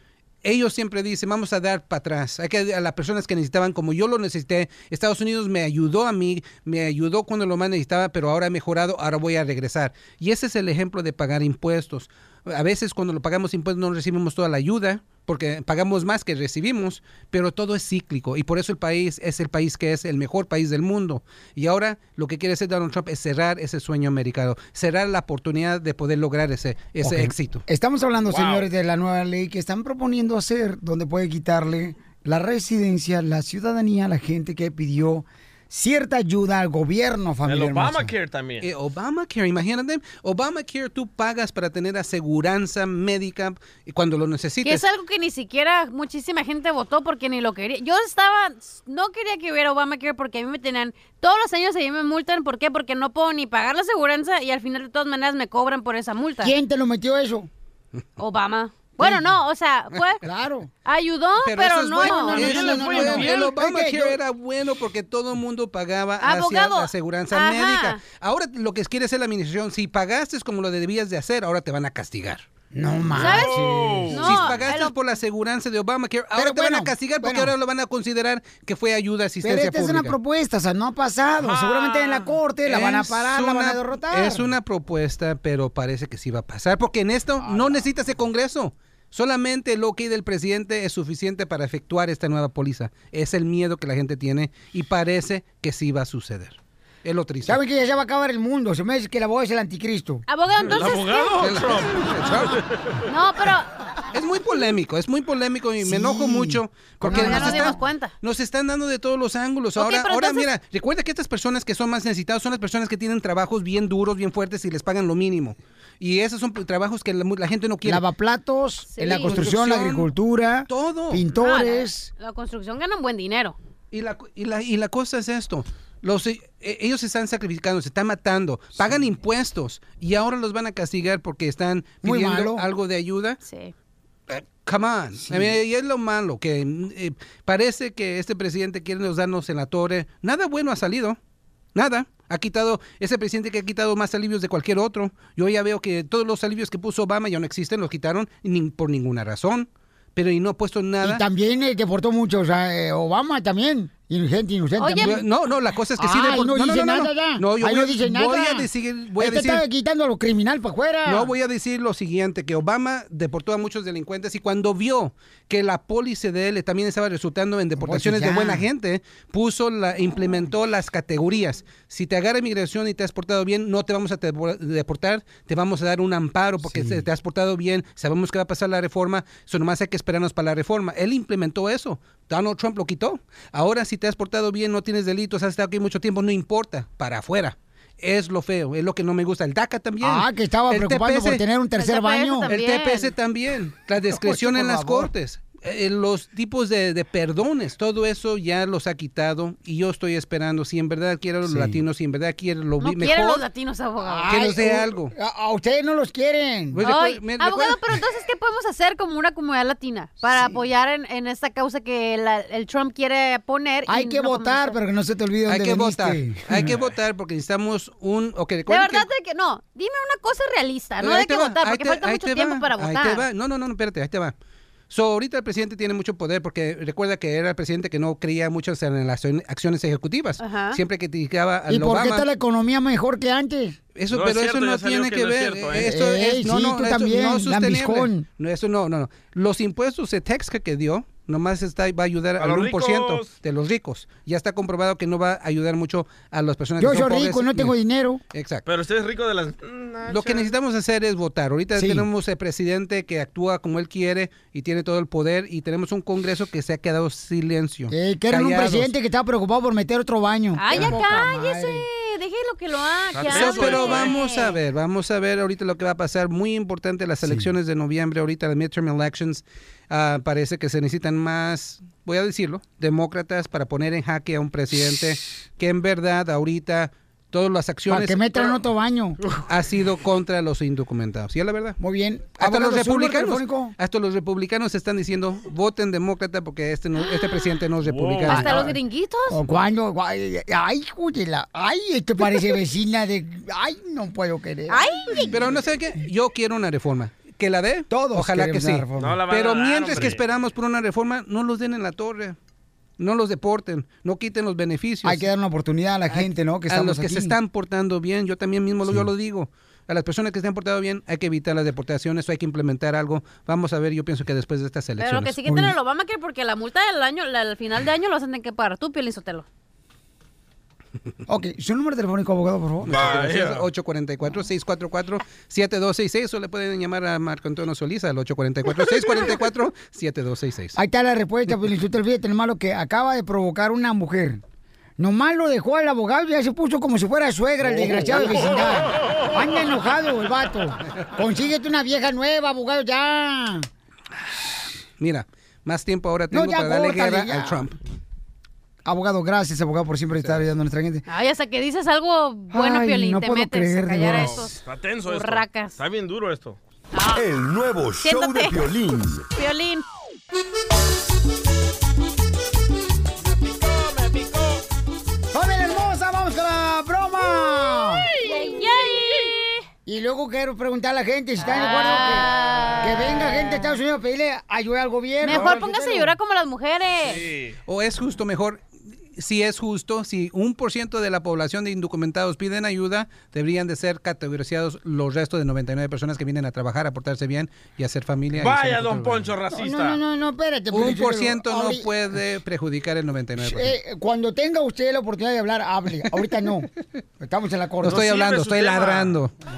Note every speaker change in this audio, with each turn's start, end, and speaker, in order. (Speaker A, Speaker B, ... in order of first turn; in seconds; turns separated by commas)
Speaker A: 0.4-27.6, Speaker B: 27.0-38.1, Speaker C: 28.3-28.7, Speaker C: 37.5-38.7, Speaker A: 38.6-44.9, Speaker D: 44.6-56.5, Speaker B: 56.4-57.5, Speaker D: 58.2-60.2, Speaker B: 59.0-59.2, Speaker B: 60.2-60.7, Speaker D: 60.9-62.8, Speaker A: 61.5-72.5, Speaker B: 62.0-64.2, Speaker C: 62.3-63.5, Speaker D: 66.2-68.0, Speaker B: 72.7-74.4, Speaker D: 73.2-75.0, Speaker C: 73.2-74.3, Speaker A: 74.2-80.2, Speaker B: 76.3-77.5, Speaker B: 79.4-84.5, Speaker C: 81.4-82.3, Speaker A: 82.7-97.6, Speaker B: 87.4-87.8, Speaker B: 97.5-100.2, Speaker D: 100.3-101.5, Speaker C: 100.6-103.0, Speaker A: 101.4-102.6, Speaker D: 103.1-103.7, Speaker A: 104.1-118.0, Speaker B: 105.8-107.8, Speaker D: 107.1-108.1, Speaker D: 109.8-110.5, Speaker B: 117.8-122.1, Speaker D: 118.9-119.4, Speaker A: 119.2-120.1, Speaker A: 120.7-121.2, Speaker D: 121.3-123.6, Speaker A: 123.9-133.4, Speaker B: 132.0-132.6, Speaker D: 133.4-133.7, Speaker A: 134.3-141.2, Speaker B: 135.2-135.6, Speaker A: 141.8-151.2, Speaker B: 151.0-155.2, Speaker D: 154.8-155.2, Speaker A: 155.1-159.6, Speaker B: 156.0-158.7, Speaker B: 159.2-161.3, Speaker A: 161.1-191.4, Speaker B: 167.8-168.7, Speaker B: 176.6-177.0, Speaker B: 190.0-192.5, Speaker D: 191.8-193.1, Speaker A: 192.5-203.4, Speaker B: 194.2-195.1, Speaker B: 201.4-201.8, Speaker D: 202.8-204.3, Speaker B: 204.0-206.8, Speaker A: 204.3-205.1, Speaker A: 206.7-207.8, Speaker D: 206.8-214.8, Speaker B: 210.3-210.6, Speaker B: 213.9-216.7, Speaker A: 215.5-219.1, Speaker D: 218.7-223.3, Speaker A: 221.0-224.3, Speaker A: 224.9-232.3, Speaker D: 230.4-230.8, Speaker B: 231.7-233.8, Speaker A: 233.9-247.7, Speaker C: 234.1-235.9, Speaker B: 235.8-238.3, Speaker C: 242.4-243.4, Speaker B: 246.8-248.2, Speaker A: 248.3-248.6, Speaker C: 248.7-250.5, Speaker A: 250.1-258.9, Speaker B: 251.8-252.1, Speaker B: 257.9-261.9, Speaker D: 260.6-264.6, Speaker C: 263.1-264.1, Speaker A: 263.3-278.6, Speaker B: 277.9-279.2, Speaker A: 279.5-281.8, Speaker B: 281.8-283.7, Speaker A: 282.4-288.6, Speaker D: 287.0-287.6, Speaker C: 287.8-288.4, Speaker D: 288.3-289.4, Speaker B: 288.4-288.8, Speaker B: 289.3-295.5, Speaker D: 294.7-295.3, Speaker A: 295.3-302.4, Speaker B: 297.9-299.2, Speaker C: 299.0-300.2, Speaker A: 303.0-305.2, Speaker B: 305.0-307.4, Speaker A: 306.2-315.4, Speaker D: 315.0-319.5, Speaker B: 315.4-315.7, Speaker B: 321.3-323.1, Speaker A: 322.9-330.8, Speaker C: 322.9-323.6, Speaker B: 330.8-334.4, Speaker B: 335.0-343.7, Speaker A: 345.0-347.8, Speaker B: 346.3-347.6, Speaker B: 348.9-351.1, Speaker D: 351.1-355.8, Speaker B: 352.5-354.5, Speaker C: 354.1-356.6, Speaker D: 356.9-357.2, Speaker E: 357.1-359.3, Speaker D: 358.0-358.7, Speaker D: 359.4-359.9, Speaker C: 363.2-364.6, Speaker B: 365.3-368.1, Speaker D: 368.2-369.6, Speaker B: 369.9-376.1, Speaker D: 371.4-373.7, Speaker D: 375.2-377.3, Speaker C: 377.0-377.6, Speaker A: 377.7-378.6, Speaker A: 379.2-389.3, Speaker C: 388.4-390.0, Speaker B: 389.5-391.9, Speaker A: 390.7-393.7, Speaker B: 393.4-396.7, Speaker B: 397.2-398.0, Speaker A: 397.8-399.3, Speaker C: 397.9-399.1